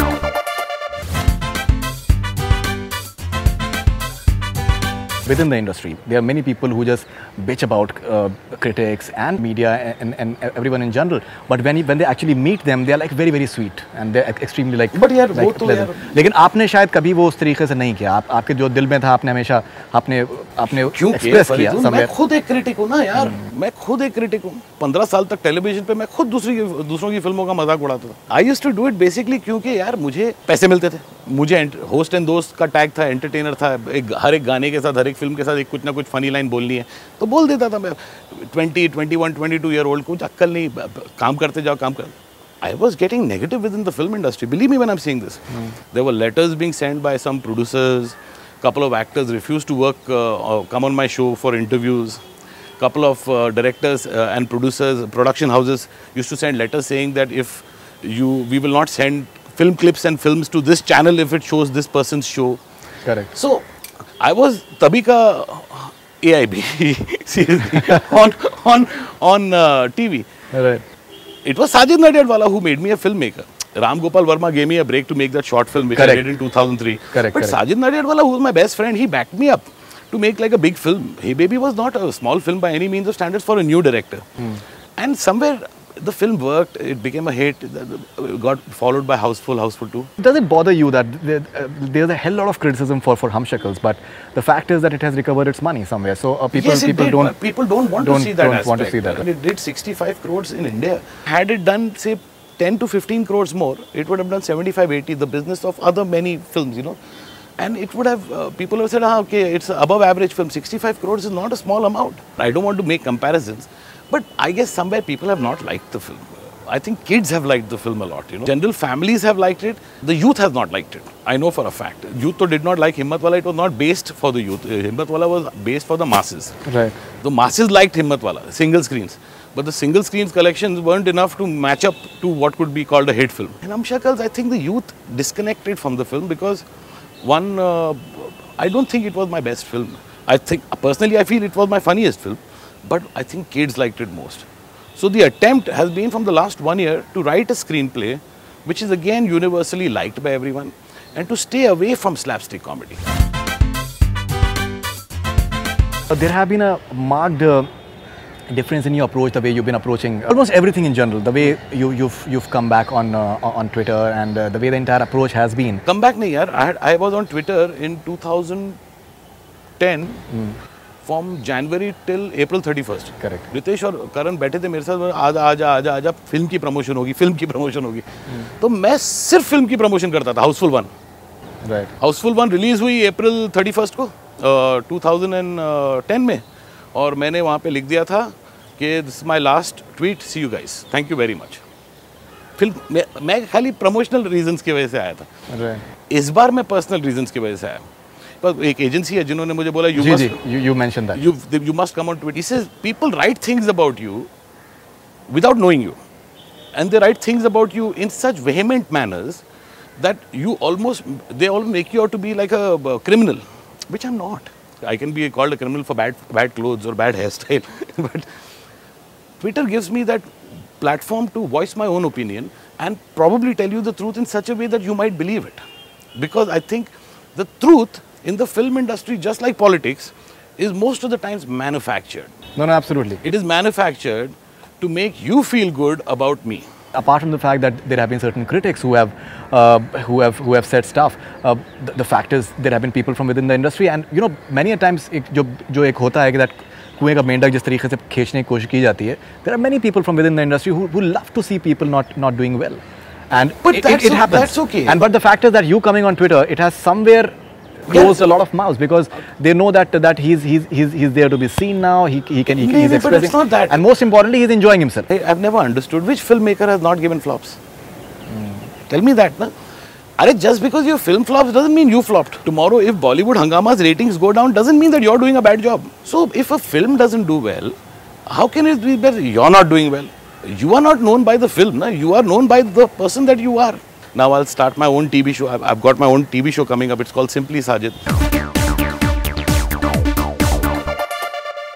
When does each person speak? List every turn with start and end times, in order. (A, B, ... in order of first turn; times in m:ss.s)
0:05.3-0:22.1 A
0:14.9-0:16.2 B
0:20.8-0:52.2 B
0:23.2-0:23.5 A
0:52.8-1:02.6 B
1:03.0-1:03.3 A
1:03.3-1:03.6 B
1:04.2-1:10.3 B
1:10.5-1:10.8 A
1:11.4-1:24.3 B
1:16.0-1:16.3 A
1:17.1-1:17.6 A
1:25.0-1:30.1 B
1:30.2-1:37.4 A
1:36.5-1:47.0 B
1:38.0-1:39.2 A
1:47.6-2:16.6 B
2:06.7-2:07.0 A
2:17.2-2:33.0 B
2:36.1-2:37.7 A
2:38.5-2:45.8 A
2:45.9-2:48.8 B
2:49.8-2:50.2 B
2:50.3-2:50.6 A
2:51.0-3:00.9 B
2:53.2-2:53.5 A
3:01.6-3:01.9 A
3:02.0-3:06.4 B
3:06.9-3:11.6 B
3:12.6-3:15.3 B
3:15.5-3:15.8 A
3:16.1-3:17.8 B
3:18.4-3:20.4 B
3:20.0-3:21.2 A
3:21.2-3:24.3 B
3:25.3-3:26.0 B
3:26.7-3:29.4 B
3:30.0-3:38.3 B
3:39.4-3:45.6 B
3:46.2-3:52.3 B
3:52.6-3:53.2 A
3:53.2-3:56.7 B
3:57.0-4:17.3 A
4:13.6-4:15.0 B
4:17.9-4:25.1 A
4:17.9-4:18.2 B
4:22.6-4:23.8 B
4:25.1-4:27.6 B
4:28.3-4:28.6 A
4:28.9-4:29.5 B
4:30.2-4:37.8 B
4:38.3-4:48.0 B